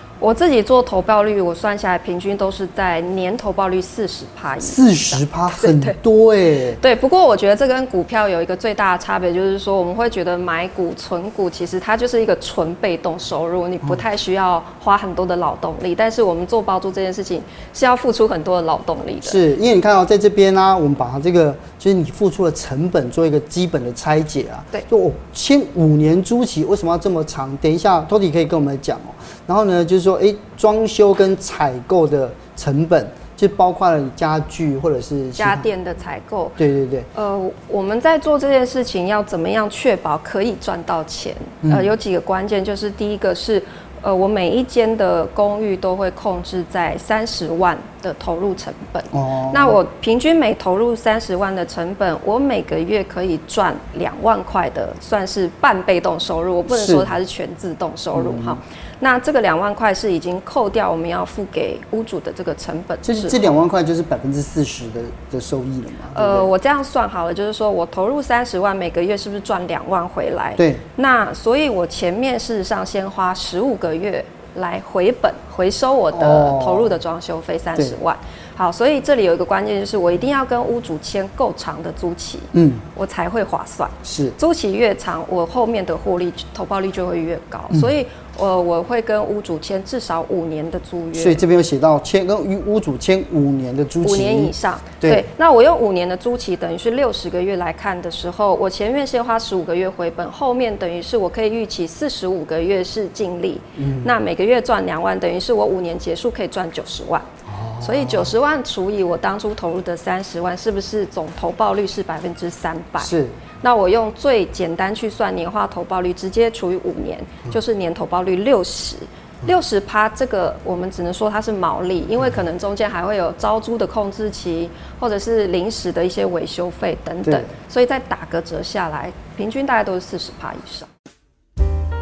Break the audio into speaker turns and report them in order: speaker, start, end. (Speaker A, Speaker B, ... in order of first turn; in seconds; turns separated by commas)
Speaker A: 0.2-6.0, Speaker B: 4.6-6.8, Speaker A: 6.8-19.4, Speaker B: 19.2-35.7, Speaker A: 35.4-36.6, Speaker B: 36.6-37.1, Speaker A: 37.1-63.5, Speaker B: 41.6-41.9, Speaker B: 49.1-49.8, Speaker B: 56.7-57.1, Speaker B: 58.1-58.6, Speaker B: 63.0-66.5, Speaker A: 66.1-91.4, Speaker B: 70.6-70.8, Speaker B: 76.1-77.0, Speaker B: 82.5-82.8, Speaker B: 84.0-84.3, Speaker B: 91.1-95.3, Speaker A: 94.0-107.3, Speaker B: 103.8-104.1, Speaker B: 107.5-108.3, Speaker A: 107.8-130.9, Speaker B: 113.0-113.4, Speaker B: 127.2-127.5